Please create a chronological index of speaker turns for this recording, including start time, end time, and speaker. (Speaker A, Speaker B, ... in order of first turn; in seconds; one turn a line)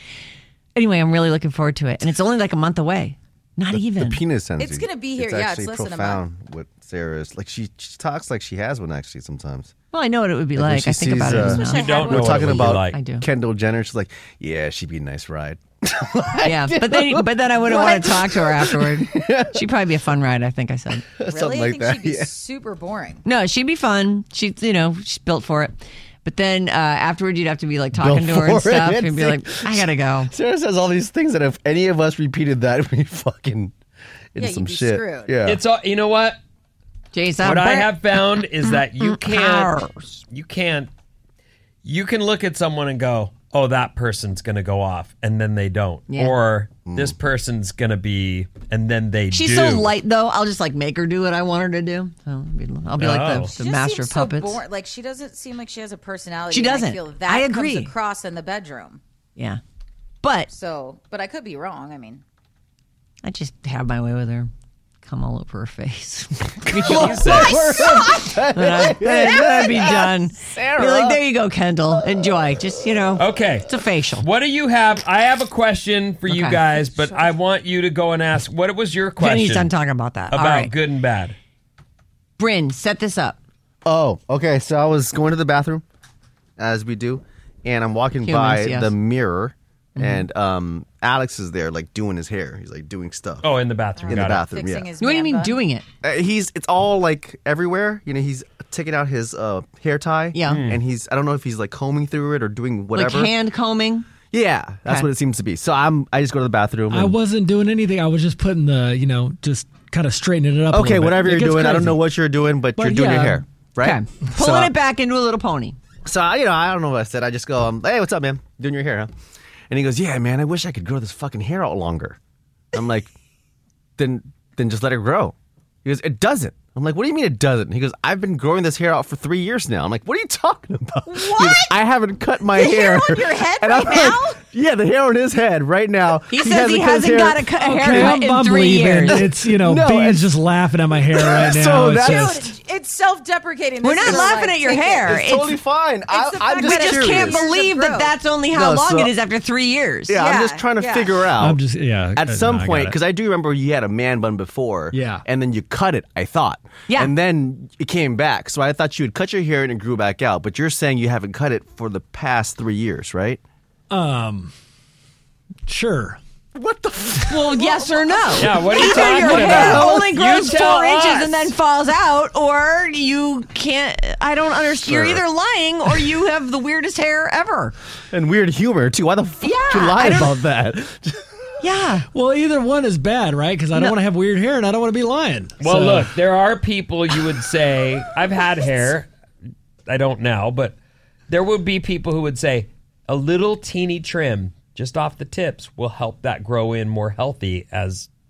Speaker A: 0.7-4.2
Speaker B: 3.7-9.7
Speaker C: 4.6-6.2
Speaker A: 9.9-13.3
Speaker B: 10.6-19.6
Speaker C: 11.4-12.4
Speaker D: 11.6-13.0
Speaker A: 16.4-21.0
Speaker B: 21.2-22.3
Speaker C: 21.3-23.2
Speaker A: 23.2-30.3
Speaker B: 27.9-33.7
Speaker B: 34.3-35.6
Speaker C: 34.4-35.4
Speaker D: 35.4-36.4
Speaker A: 37.1-40.2
Speaker D: 37.4-39.8
Speaker D: 40.3-40.9
Speaker D: 41.8-49.9
Speaker A: 46.1-46.3
Speaker B: 46.9-47.1
Speaker A: 49.3-54.6
Speaker D: 53.0-53.5
Speaker C: 53.4-59.0
Speaker A: 56.5-57.9
Speaker A: 60.2-60.5
Speaker C: 60.5-62.2
Speaker A: 63.2-64.5
Speaker A: 65.0-74.2
Speaker D: 66.7-67.7
Speaker B: 66.8-71.2
Speaker B: 72.0-72.3
Speaker D: 73.2-79.7
Speaker A: 76.3-76.6
Speaker A: 79.2-80.7
Speaker D: 80.3-81.3
Speaker A: 82.4-83.4
Speaker B: 83.8-85.8
Speaker B: 86.6-93.5
Speaker A: 88.2-88.9
Speaker A: 90.0-90.3
Speaker D: 93.4-94.5
Speaker C: 94.0-95.6
Speaker B: 94.1-94.9
Speaker A: 95.0-95.8
Speaker B: 96.0-103.4
Speaker A: 100.3-100.6
Speaker D: 100.5-100.8
Speaker A: 102.9-104.1
Speaker B: 104.3-107.1
Speaker E: 106.9-112.0
Speaker B: 110.7-114.7
Speaker E: 112.8-113.4
Speaker A: 113.8-115.8
Speaker B: 116.0-119.1
Speaker B: 119.7-122.2
Speaker B: 122.7-123.1
Speaker B: 124.0-137.5
Speaker C: 131.1-131.7
Speaker C: 132.5-134.4
Speaker A: 136.3-139.2
Speaker E: 137.6-142.5
Speaker B: 139.1-140.3
Speaker B: 141.1-142.3
Speaker C: 142.0-145.2
Speaker A: 143.8-145.6
Speaker B: 144.0-144.3
Speaker B: 145.0-147.5
Speaker C: 146.1-148.1
Speaker A: 146.6-150.2
Speaker B: 148.5-149.1
Speaker B: 150.1-151.6
Speaker C: 150.1-151.3
Speaker E: 151.4-152.9
Speaker B: 152.1-163.4
Speaker E: 154.9-155.2
Speaker E: 163.9-164.5
Speaker E: 165.7-166.2
Speaker B: 166.5-170.0
Speaker A: 167.3-177.7
Speaker D: 168.4-171.5
Speaker B: 174.8-175.2
Speaker B: 178.1-181.3
Speaker A: 179.4-180.4
Speaker A: 181.6-182.1
Speaker E: 182.1-186.1
Speaker D: 185.6-189.1
Speaker D: 189.9-190.8
Speaker D: 191.3-198.1